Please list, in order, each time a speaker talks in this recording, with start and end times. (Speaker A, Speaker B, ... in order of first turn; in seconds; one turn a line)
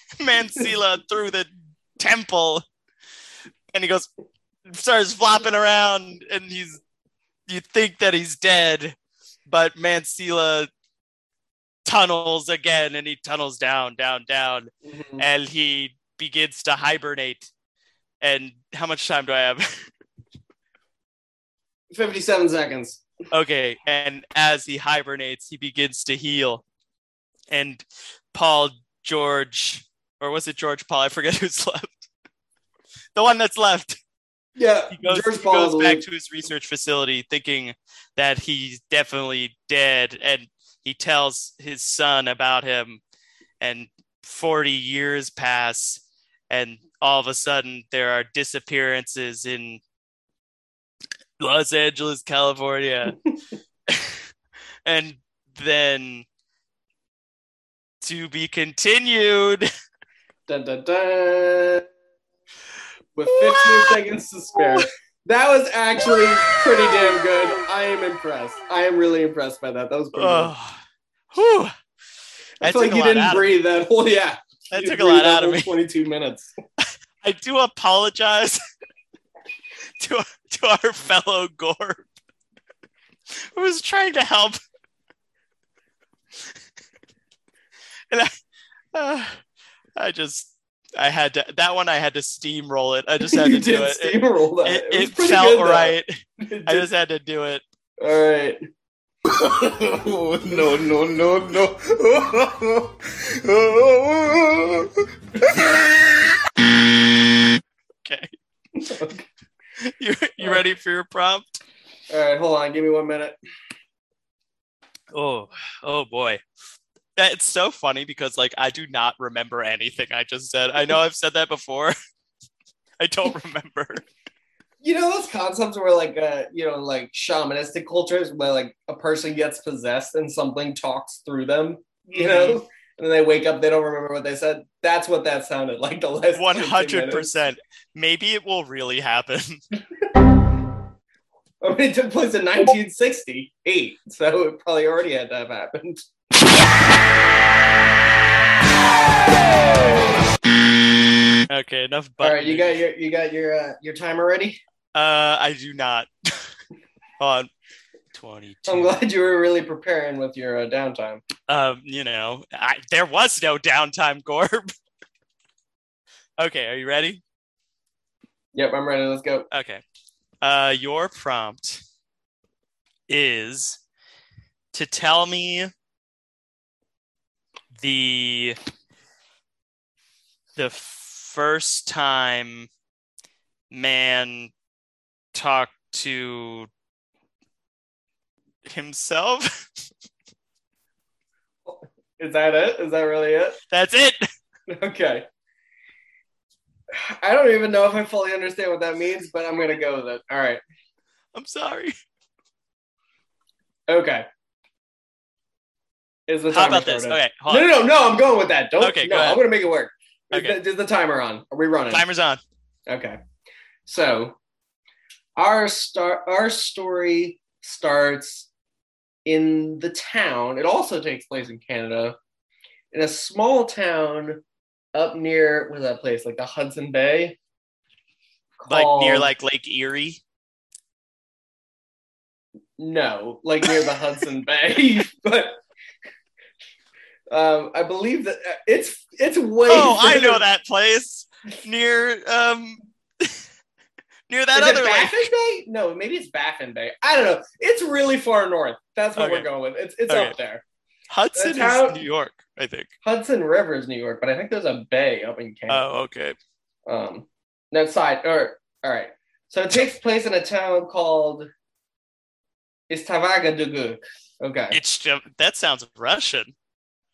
Speaker A: 0.2-2.6
Speaker A: 3.7-4.1
Speaker A: 4.7-6.8
Speaker A: 7.5-8.9
Speaker A: 9.5-10.7
Speaker A: 11.8-17.5
Speaker B: 14.8-15.2
Speaker A: 18.2-19.6
Speaker B: 21.9-23.0
Speaker A: 23.3-26.6
Speaker A: 27.5-32.0
Speaker A: 33.1-34.0
Speaker B: 34.6-36.0
Speaker A: 34.9-43.0
Speaker A: 43.6-49.8
Speaker A: 51.4-53.2
Speaker A: 53.9-54.2
Speaker A: 54.9-56.2
Speaker A: 58.0-59.7
Speaker B: 60.5-61.9
Speaker B: 63.1-70.5
Speaker A: 63.2-64.0
Speaker A: 64.5-64.8
Speaker A: 66.0-67.6
Speaker A: 70.1-70.8
Speaker A: 71.3-71.7
Speaker A: 72.6-73.6
Speaker B: 72.6-76.5
Speaker A: 74.7-75.7
Speaker A: 77.2-78.6
Speaker A: 80.0-82.1
Speaker A: 83.5-84.6
Speaker A: 88.9-89.4
Speaker A: 90.0-96.1
Speaker B: 93.2-96.9
Speaker A: 96.7-97.6
Speaker B: 98.0-98.6
Speaker C: 99.4-104.8
Speaker C: 105.5-105.9
Speaker A: 108.0-108.3
Speaker B: 108.8-109.2
Speaker A: 109.8-111.6
Speaker B: 112.1-113.3
Speaker A: 115.1-116.4
Speaker A: 117.2-121.9
Speaker A: 123.0-124.0
Speaker B: 124.8-137.3
Speaker A: 132.1-132.6
Speaker A: 136.3-139.6
Speaker B: 141.6-146.0
Speaker A: 151.5-152.8
Speaker B: 152.2-154.6
Speaker A: 154.9-156.4
Speaker A: 157.2-157.5
Speaker A: 158.1-158.9
Speaker B: 158.7-161.2
Speaker A: 161.5-164.7
Speaker A: 166.4-167.2
Speaker B: 168.5-169.5
Speaker A: 169.5-169.8
Speaker A: 170.4-171.8
Speaker A: 173.1-173.8
Speaker A: 174.7-175.7
Speaker A: 177.8-178.6
Speaker A: 180.6-182.7
Speaker A: 183.7-184.5
Speaker A: 185.3-186.7
Speaker A: 188.6-189.5
Speaker B: 191.7-193.6
Speaker A: 193.7-194.2
Speaker B: 194.7-195.2
Speaker B: 196.9-200.6
Speaker A: 201.3-201.9
Speaker B: 203.9-204.2
Speaker B: 206.3-212.0
Speaker A: 206.5-207.7
Speaker A: 208.8-209.4
Speaker A: 211.9-212.4
Speaker B: 212.9-213.2
Speaker B: 213.8-214.4
Speaker B: 215.4-218.5
Speaker B: 219.2-222.2
Speaker B: 222.9-224.4
Speaker B: 224.9-227.4
Speaker B: 228.6-229.3
Speaker A: 228.7-230.2
Speaker B: 232.8-235.6
Speaker B: 237.3-240.4
Speaker A: 239.7-243.4
Speaker A: 244.3-245.3
Speaker B: 244.5-250.6
Speaker A: 249.2-249.5
Speaker A: 250.1-250.3
Speaker A: 251.1-252.9
Speaker B: 251.3-252.0
Speaker B: 253.0-255.8
Speaker A: 255.7-256.4
Speaker B: 256.9-261.5
Speaker B: 262.9-264.8
Speaker A: 264.7-266.5